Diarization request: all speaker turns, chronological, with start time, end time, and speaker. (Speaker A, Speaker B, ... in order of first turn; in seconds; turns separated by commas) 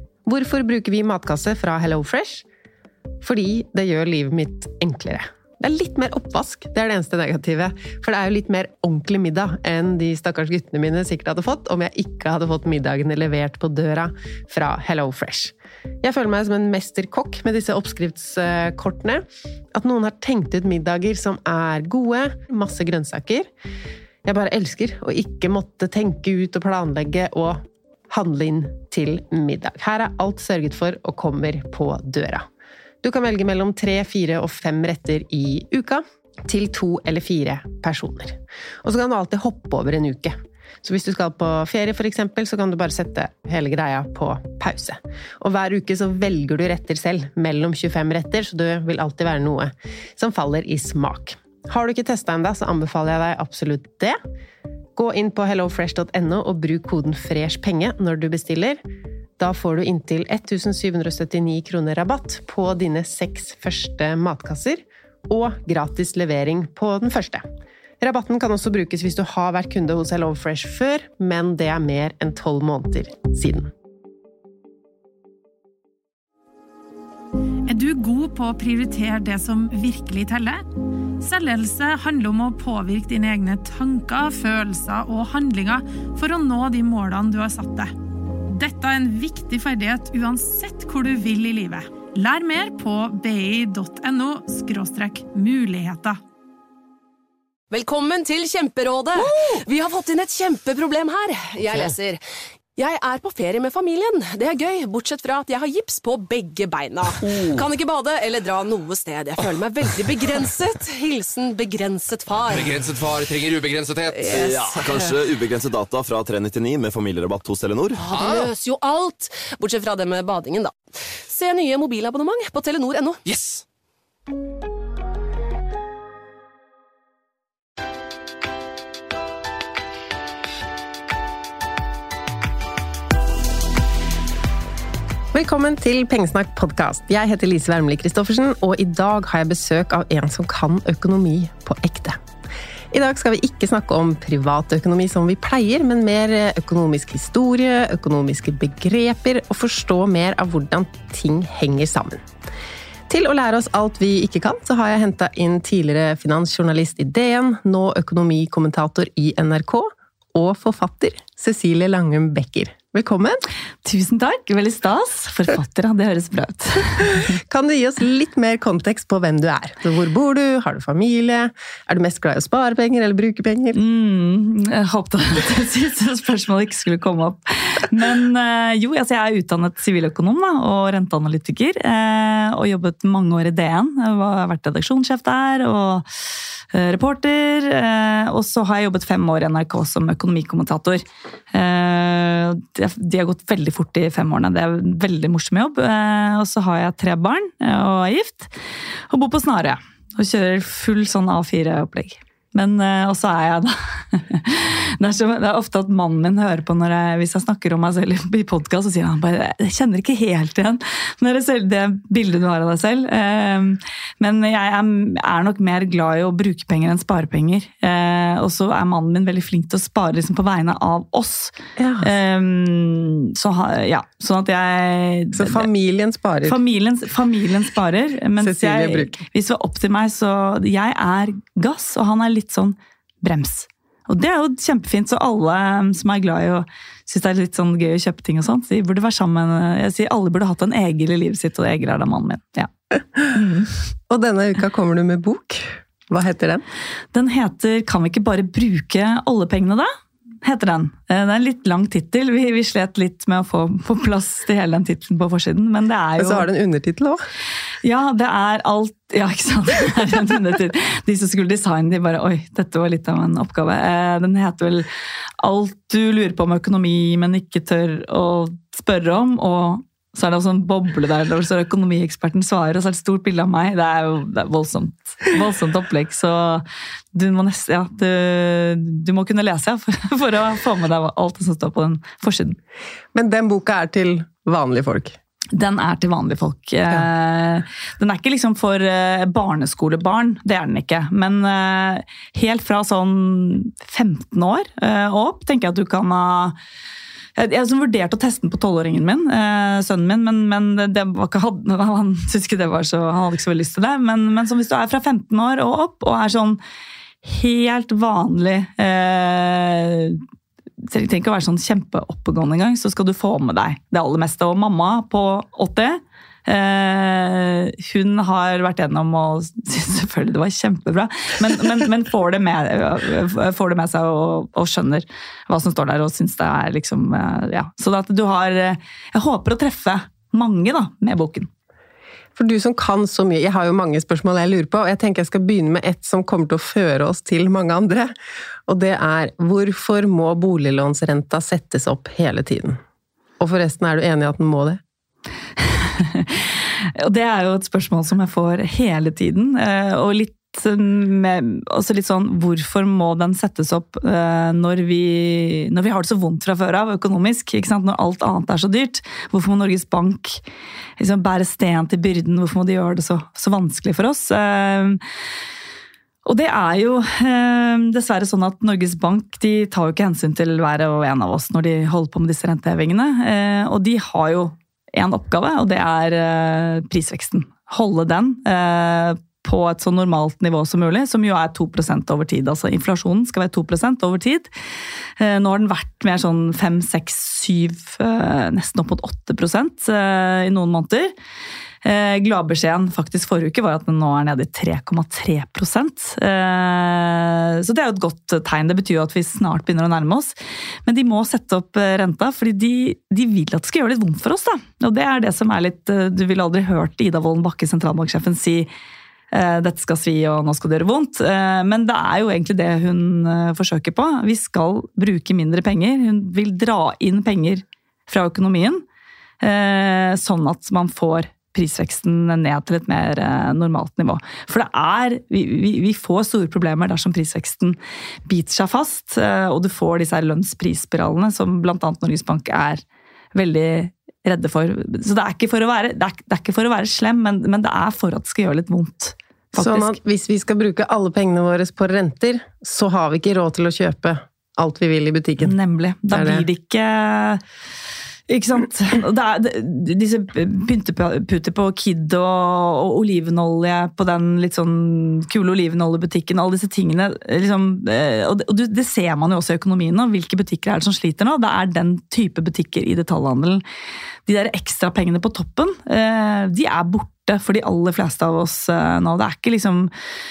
Speaker A: 0.2-2.4, Speaker A: 3.2-23.5, Speaker A: 24.2-32.5, Speaker A: 33.0-54.2, Speaker A: 55.0-58.8, Speaker A: 59.4-67.4, Speaker A: 68.0-73.7, Speaker B: 77.7-80.6, Speaker B: 81.2-87.9, Speaker B: 88.5-96.2, Speaker C: 97.7-102.2, Speaker C: 102.8-112.8, Speaker D: 112.5-114.7, Speaker C: 114.1-115.1, Speaker E: 114.3-118.0, Speaker C: 118.0-123.2, Speaker D: 118.2-118.5, Speaker D: 123.2-123.6, Speaker A: 135.3-142.2, Speaker A: 142.9-152.3, Speaker A: 153.1-163.4, Speaker F: 163.8-167.3, Speaker A: 167.1-173.8, Speaker F: 173.7-186.1, Speaker F: 186.7-198.5, Speaker F: 199.1-225.7, Speaker A: 221.8-222.1, Speaker A: 225.3-226.6, Speaker F: 226.4-242.7, Speaker A: 228.4-229.2, Speaker F: 243.3-243.7, Speaker A: 244.1-246.6, Speaker F: 247.1-249.9, Speaker F: 250.4-256.5, Speaker A: 256.2-257.2, Speaker F: 257.8-264.9, Speaker F: 265.4-276.6, Speaker F: 277.1-282.6, Speaker A: 283.1-285.1, Speaker F: 285.5-296.6, Speaker F: 297.4-306.6, Speaker F: 307.2-310.2, Speaker F: 310.9-331.5, Speaker A: 332.4-338.1, Speaker A: 338.7-342.8, Speaker A: 343.4-344.8, Speaker F: 345.6-360.4, Speaker F: 361.0-365.0, Speaker F: 366.2-384.5, Speaker F: 385.2-391.1, Speaker F: 391.8-400.3, Speaker F: 400.9-408.7, Speaker F: 409.3-418.8, Speaker F: 419.4-432.8, Speaker F: 433.3-440.0, Speaker A: 439.5-445.5, Speaker F: 445.4-447.4, Speaker A: 446.1-446.4, Speaker F: 448.3-463.6, Speaker F: 464.2-469.9